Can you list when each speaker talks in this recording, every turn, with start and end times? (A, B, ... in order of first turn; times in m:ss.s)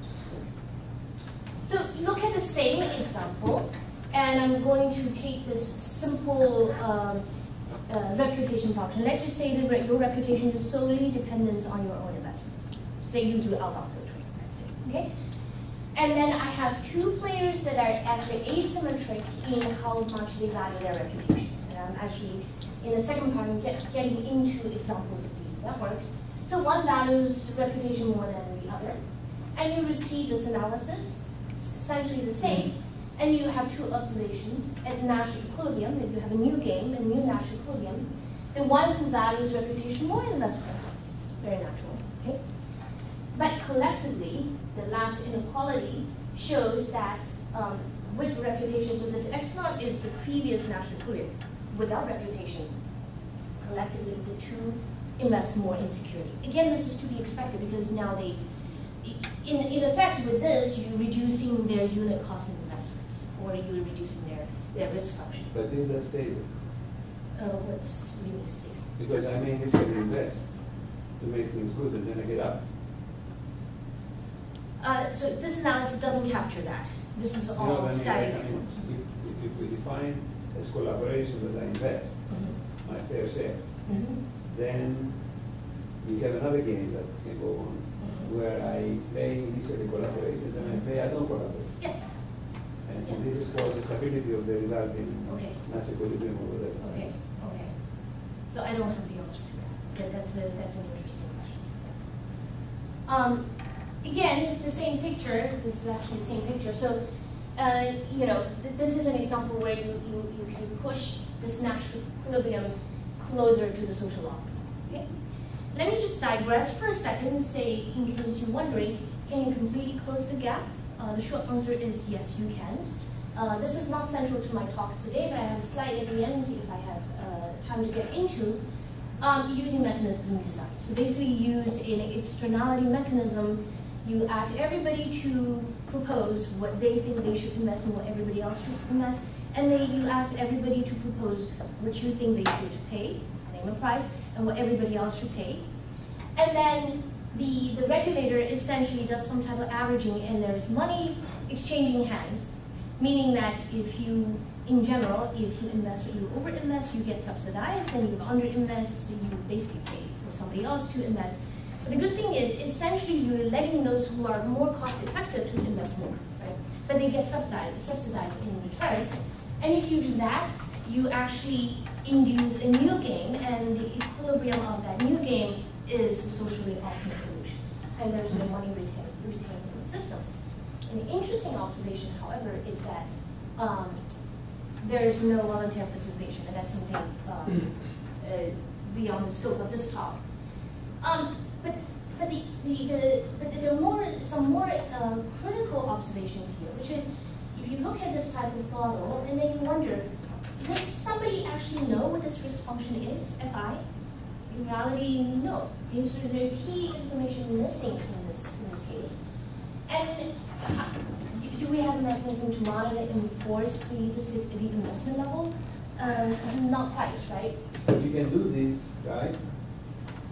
0:01.6-0:07.2 A
0:07.9-0:15.1 A
0:15.9-0:29.0 A
0:29.5-0:42.4 A
0:43.3-0:52.8 A
0:53.6-0:58.4 A
0:59.0-1:05.5 A
1:05.5-1:06.6 B
1:07.4-1:08.9 A
1:09.0-1:12.6 B
1:14.8-1:18.9 A
1:17.6-1:23.9 B
1:22.3-1:22.6 A
1:23.9-1:24.2 A
1:24.5-1:25.2 B
1:26.0-1:31.8 B
1:28.0-1:28.2 A
1:30.6-1:30.8 A
1:31.8-1:32.1 A
1:32.8-1:37.1 B
1:35.3-1:35.6 A
1:36.8-1:37.7 A
1:38.5-1:42.0 A
1:43.0-1:43.5 A
1:44.0-1:47.0 A
1:47.5-1:55.0 A
1:55.7-2:08.6 A
2:09.2-2:25.6 A
2:26.3-3:00.2 A
3:00.9-3:04.0 A
3:04.8-3:10.2 A
3:11.0-3:20.1 A
3:20.6-3:23.8 A
3:24.5-3:29.2 A
3:29.9-3:37.6 A
3:37.8-3:39.6 B